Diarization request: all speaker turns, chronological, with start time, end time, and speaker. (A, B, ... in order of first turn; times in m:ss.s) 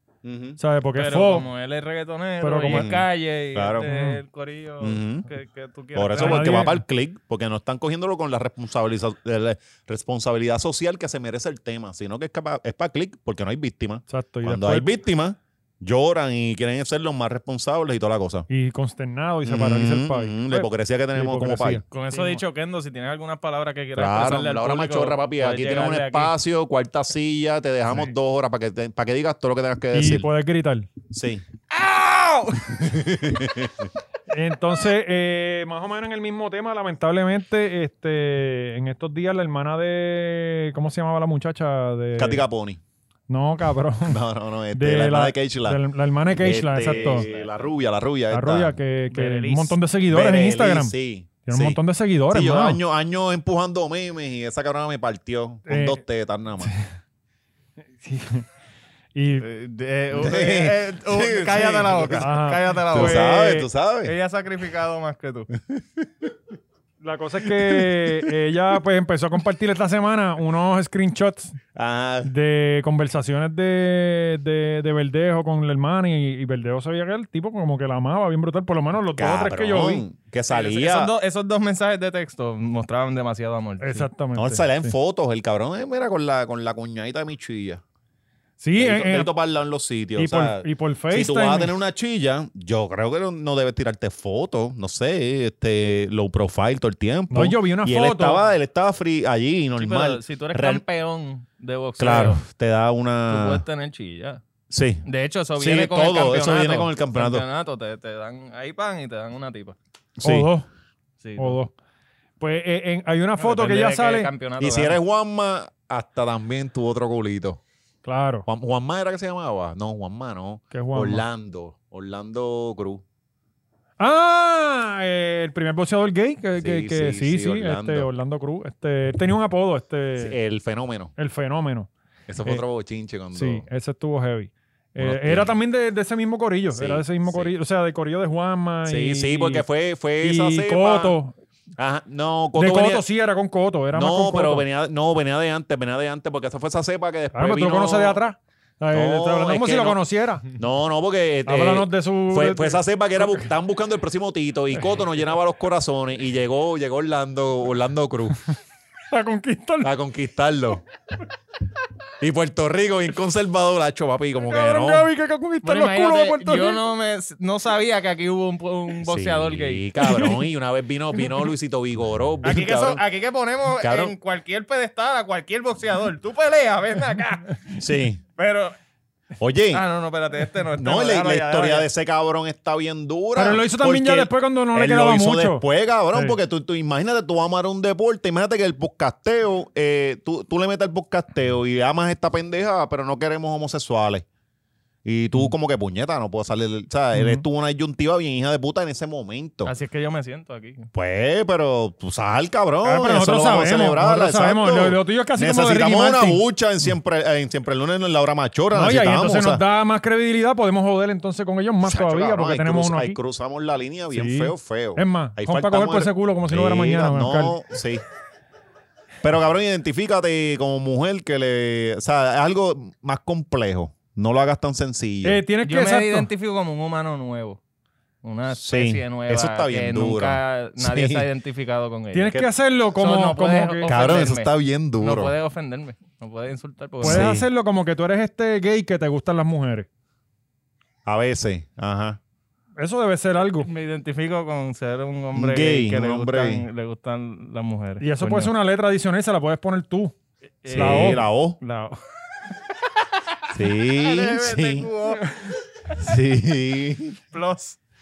0:00.2-0:00.6 A
0:00.6-0:01.5 B
0:00.9-0:06.7 C
0:02.4-0:02.9 B
0:02.7-0:03.9 A
0:03.9-0:04.2 B
0:04.8-0:05.2 A
0:05.9-0:18.5 A
0:06.2-0:06.8 B
0:14.1-0:14.9 B
0:18.5-0:22.4 B
0:19.4-0:21.8 A
0:21.9-0:26.3 C
0:24.0-0:30.3 A
0:29.9-0:30.9 B
0:31.1-0:31.4 A
0:31.7-0:32.8 C
0:32.7-0:33.9 A
0:34.3-0:42.4 B
0:42.2-0:42.8 A
0:43.3-0:44.2 B
0:44.1-0:48.7 A
0:44.7-0:47.2 B
0:46.8-0:47.7 C
0:48.3-0:52.8 B
0:49.1-0:49.8 C
0:50.1-0:51.8 A
0:52.3-0:56.7 A
0:55.7-0:56.0 B
0:58.0-0:58.4 B
0:59.1-0:59.4 B
0:59.4-1:03.4 C
1:00.1-1:02.3 A
1:02.2-1:03.6 B
1:02.9-1:04.1 A
1:04.0-1:05.5 C
1:05.5-1:06.3 A
1:07.0-1:11.6 B
1:07.4-1:08.3 A
1:11.7-1:12.3 A
1:12.2-1:20.0 B
1:19.1-1:21.1 A
1:20.5-1:24.1 C
1:23.8-1:24.9 B
1:24.3-1:27.8 A
1:28.6-1:29.3 B
1:28.8-1:40.8 A
1:30.2-1:31.7 B
1:37.3-1:38.4 B
1:39.8-1:42.4 C
1:42.0-1:43.6 A
1:43.3-1:44.4 C
1:44.7-1:45.0 A
1:45.0-1:49.8 C
1:45.6-1:47.4 A
1:50.2-1:50.5 A
1:50.2-1:50.7 B
1:51.2-1:51.6 C
1:51.4-1:51.7 B
1:52.4-1:54.3 B
1:53.4-1:55.0 C
1:54.6-1:57.6 A
1:58.0-1:58.4 B
1:58.5-2:03.0 A
2:00.7-2:01.2 B
2:04.0-2:10.4 B
2:06.6-2:08.1 A
2:10.2-2:11.1 A
2:11.2-2:11.9 B
2:12.3-2:13.6 A
2:13.3-2:19.6 B
2:15.0-2:15.5 A
2:16.7-2:17.5 A
2:18.8-2:21.2 A
2:20.2-2:21.4 B
2:21.8-2:23.0 A
2:22.5-2:24.6 B
2:23.9-2:28.2 A
2:27.3-2:30.5 B
2:28.9-2:30.0 A
2:30.5-2:38.4 A
2:31.4-2:33.4 B
2:39.1-2:39.9 B
2:39.8-2:40.8 A
2:42.2-2:45.1 A
2:44.5-2:46.8 B
2:45.6-2:49.9 C
2:49.0-2:53.0 A
2:50.0-2:50.3 B
2:52.4-2:57.8 C
2:53.8-2:54.1 A
2:57.8-2:58.2 A
2:58.4-2:58.8 C
2:59.4-2:59.8 A
2:59.7-3:01.9 C
3:00.8-3:14.2 A
3:03.3-3:06.4 B
3:15.0-3:19.7 A
3:17.1-3:17.4 B
3:19.6-3:20.9 C
3:20.9-3:29.6 A
3:22.8-3:26.4 B
3:28.7-3:33.2 B
3:31.8-3:38.0 A
3:34.1-3:37.6 B
3:39.2-3:45.4 A
3:45.2-3:46.3 B
3:45.6-3:47.6 C
3:48.2-3:52.4 C
3:48.5-3:51.2 A
3:52.1-3:53.9 B
3:53.0-3:57.3 C
3:53.8-3:55.3 A
3:57.0-3:59.9 B
3:57.0-3:57.5 A
4:01.0-4:02.2 A
4:02.8-4:03.7 B
4:03.6-4:08.5 C
4:05.3-4:06.6 A
4:08.0-4:11.2 B
4:10.6-4:11.9 C
4:10.7-4:11.6 A
4:13.0-4:15.5 C
4:13.5-4:14.9 A
4:16.0-4:17.2 A
4:17.3-4:17.8 C